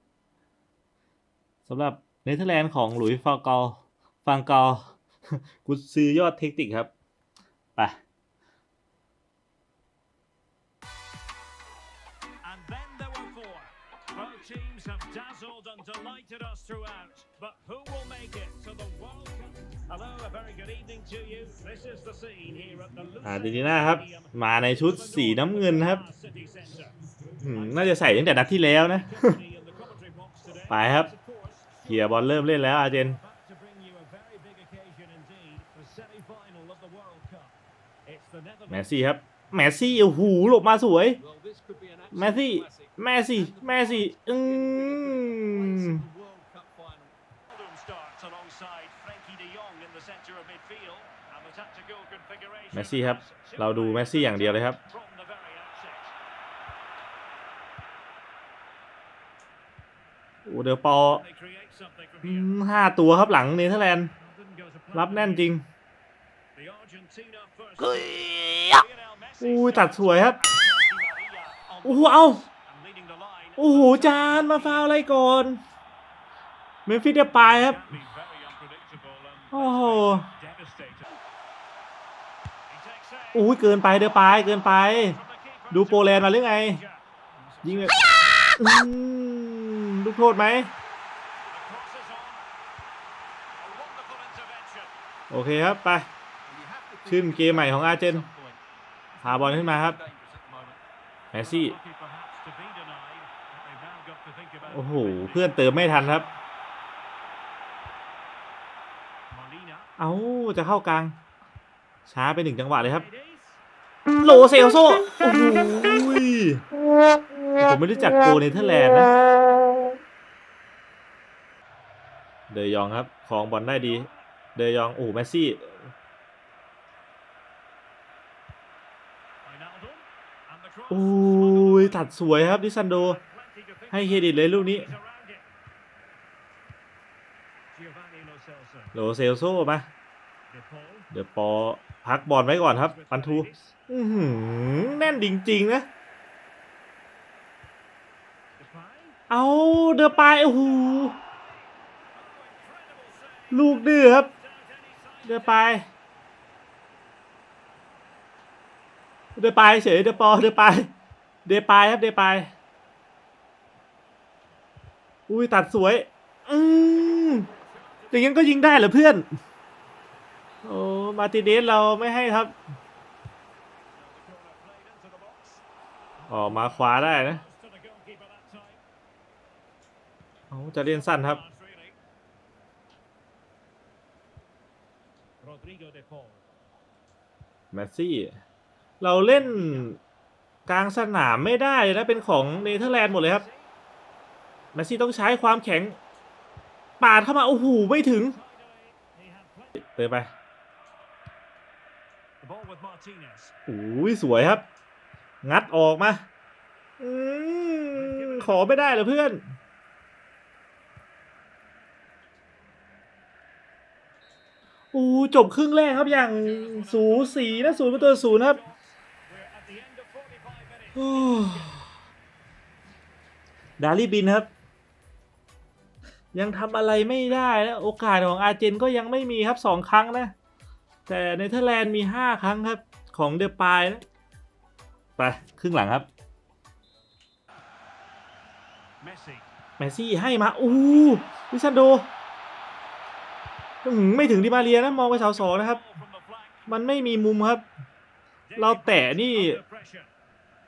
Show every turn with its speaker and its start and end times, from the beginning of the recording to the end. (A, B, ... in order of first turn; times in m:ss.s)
0:01.7-0:06.9 A
0:12.4-0:27.0 B
0:23.2-0:26.0 A
0:27.4-0:29.4 A
0:27.5-0:37.6 B
0:30.7-0:31.1 A
0:31.9-0:33.2 A
0:38.1-0:38.9 B
0:38.7-0:41.2 A
0:41.2-0:47.2 C
0:42.1-0:46.0 A
0:47.5-0:56.1 B
0:52.7-0:54.8 A
1:00.5-1:01.2 A
1:01.0-1:02.5 B
1:02.2-1:04.1 A
1:04.2-1:05.5 B
1:04.9-1:05.6 A
1:06.6-1:14.9 B
1:09.4-1:10.4 A
1:11.8-1:12.4 A
1:13.6-1:15.6 A
1:16.9-1:17.9 A
1:17.4-1:21.2 B
1:19.5-1:20.3 A
1:22.7-1:28.6 B
1:23.3-1:25.2 A
1:25.7-1:26.8 A
1:27.6-1:27.9 A
1:28.6-1:30.7 A
1:31.5-1:32.4 B
1:33.6-1:34.9 B
1:35.3-1:36.1 A
1:36.4-1:40.8 C
1:37.1-1:38.3 A
1:39.2-1:40.0 A
1:41.3-1:45.8 B
1:41.3-1:41.8 A
1:44.7-1:46.3 A
1:49.3-1:49.9 B
1:50.0-1:51.2 A
1:52.1-1:53.0 A
1:52.8-1:53.6 B
1:54.2-1:56.6 A
1:57.6-1:59.1 A
2:02.5-2:05.8 A
2:03.8-2:04.2 B
2:09.4-2:12.1 B
2:10.9-2:13.2 A
2:12.9-2:15.5 B
2:13.9-2:14.9 A
2:17.7-2:19.0 B
2:18.9-2:19.9 A
2:20.5-2:21.1 B
2:21.1-2:25.9 A
2:22.7-2:23.8 B
2:24.8-2:25.3 B
2:28.6-2:29.2 B
2:29.3-2:31.2 A
2:30.4-2:35.8 B
2:33.5-2:34.3 A
2:35.3-2:35.8 A
2:39.4-2:40.9 A
2:40.0-2:40.3 B
2:41.5-2:42.5 A
2:45.3-2:47.5 A
2:46.9-2:48.4 B
2:48.1-2:49.3 A
2:50.6-2:52.5 A
2:53.9-2:55.6 B
2:56.2-2:58.8 B
2:56.3-2:57.4 A
3:00.5-3:01.4 A
3:00.8-3:02.0 B
3:05.4-3:06.4 B
3:07.7-3:08.3 A
3:09.0-3:10.0 A
3:09.3-3:09.9 B
3:10.7-3:13.4 A
3:12.6-3:13.7 B
3:14.8-3:16.0 A
3:17.0-3:18.4 A
3:18.3-3:19.8 B
3:19.8-3:20.3 A
3:22.4-3:23.6 B
3:23.7-3:24.6 A
3:25.4-3:26.3 A
3:27.0-3:29.4 A
3:27.9-3:29.1 B
3:34.9-3:38.6 A
3:35.9-3:41.9 B
3:41.0-3:41.9 A
3:43.8-3:44.5 A
3:46.3-3:50.3 A
3:51.1-3:54.0 A
3:55.2-3:56.1 A
3:59.0-3:59.5 B
3:59.8-4:02.1 A
4:00.6-4:01.5 B
4:03.8-4:05.8 A
4:04.2-4:06.7 B
4:06.7-4:07.6 A
4:08.5-4:10.1 B
4:08.6-4:09.6 A